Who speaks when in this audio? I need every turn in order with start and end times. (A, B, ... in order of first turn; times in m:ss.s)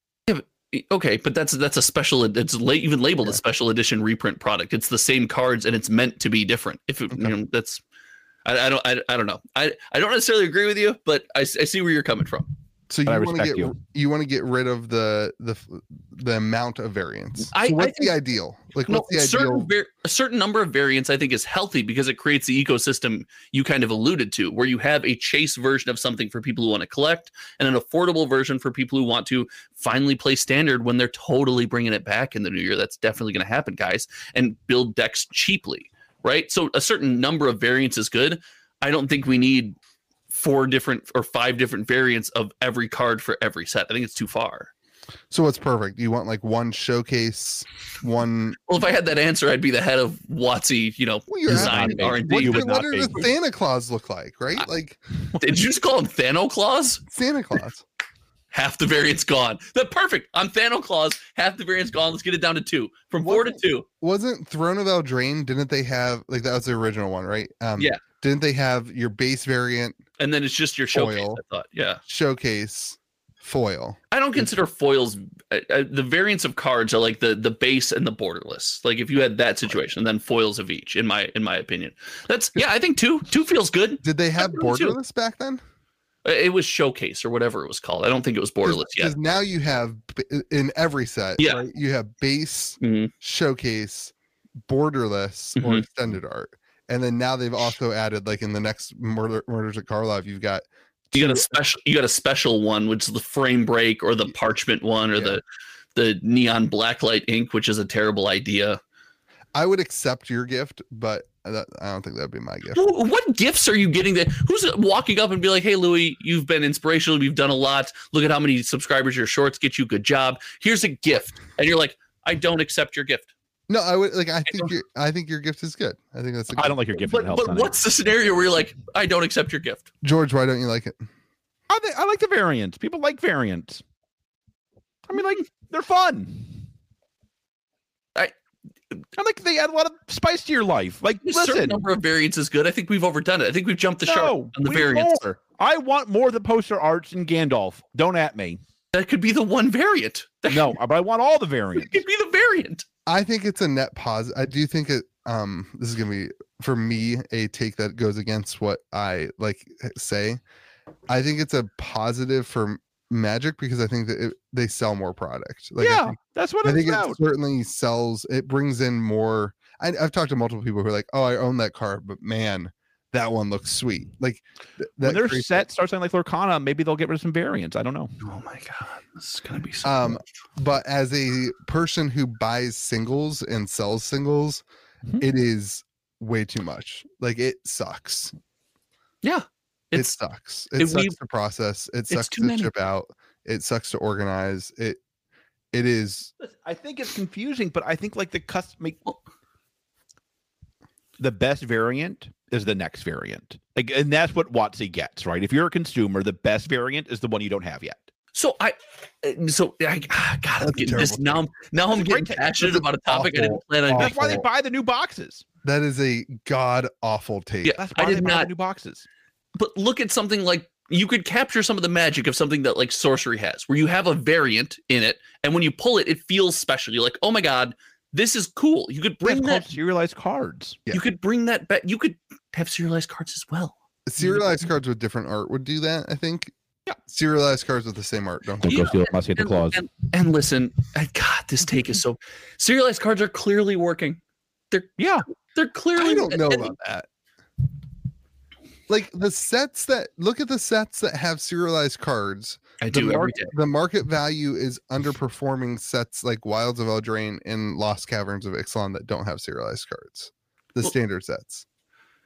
0:00.3-0:07.8 A
0:08.4-0:12.5 A
0:12.9-0:19.7 B
0:13.1-0:13.7 C
0:17.5-0:18.1 A
0:18.9-0:39.8 A
0:40.3-0:44.7 A
0:45.3-0:48.6 B
0:48.7-0:53.2 A
0:51.3-0:55.0 B
0:51.5-0:53.2 C
0:55.4-0:57.0 A
0:57.1-0:57.8 B
0:58.5-1:03.8 A
1:03.2-1:10.0 B
1:10.2-1:12.0 A
1:10.9-1:11.4 B
1:12.1-1:14.5 B
1:14.1-1:25.0 A
1:24.0-1:25.6 B
1:26.2-1:29.1 A
1:28.6-1:34.1 B
1:32.8-1:33.1 A
1:34.7-1:41.5 B
1:35.6-1:35.8 A
1:41.1-1:45.4 A
1:45.1-1:45.4 B
1:45.9-1:48.8 A
1:49.5-1:52.8 B
1:52.7-2:03.3 A
2:03.7-2:06.8 B
2:06.5-2:07.8 C
2:07.0-2:09.8 A
2:10.0-2:11.0 B
2:11.7-2:13.8 C
2:15.1-2:16.6 C
2:19.2-2:21.8 C
2:21.2-2:25.2 A
2:24.0-2:28.6 C
2:28.9-2:30.8 A
2:30.5-2:32.0 C
2:31.8-2:32.8 A
2:33.0-2:40.4 B
2:41.1-2:55.7 B
2:45.8-2:47.2 C
2:55.0-2:58.1 C
2:58.2-3:00.2 A
2:59.8-3:04.6 B
3:05.2-3:08.3 B
3:09.2-3:10.1 A
3:09.9-3:15.0 B
3:10.8-3:11.1 A
3:12.1-3:12.7 A
3:15.7-3:16.3 B
3:16.4-3:19.0 C
3:21.2-3:28.1 C
3:28.3-3:34.4 A
3:30.6-3:31.4 B
3:31.9-3:32.6 C
3:32.6-3:34.4 B
3:34.0-3:35.4 C
3:35.6-3:37.8 B
3:37.6-3:38.5 A
3:37.7-3:39.0 C
3:39.5-3:49.6 A
3:49.2-3:50.8 C
3:50.9-3:53.7 A
3:54.0-3:56.5 B
3:57.0-3:58.8 B
3:58.6-3:59.8 C
3:58.6-4:04.2 A
4:04.7-4:06.7 A
4:05.0-4:05.2 C
4:06.0-4:07.1 B
4:08.9-4:21.6 B
4:12.8-4:13.5 A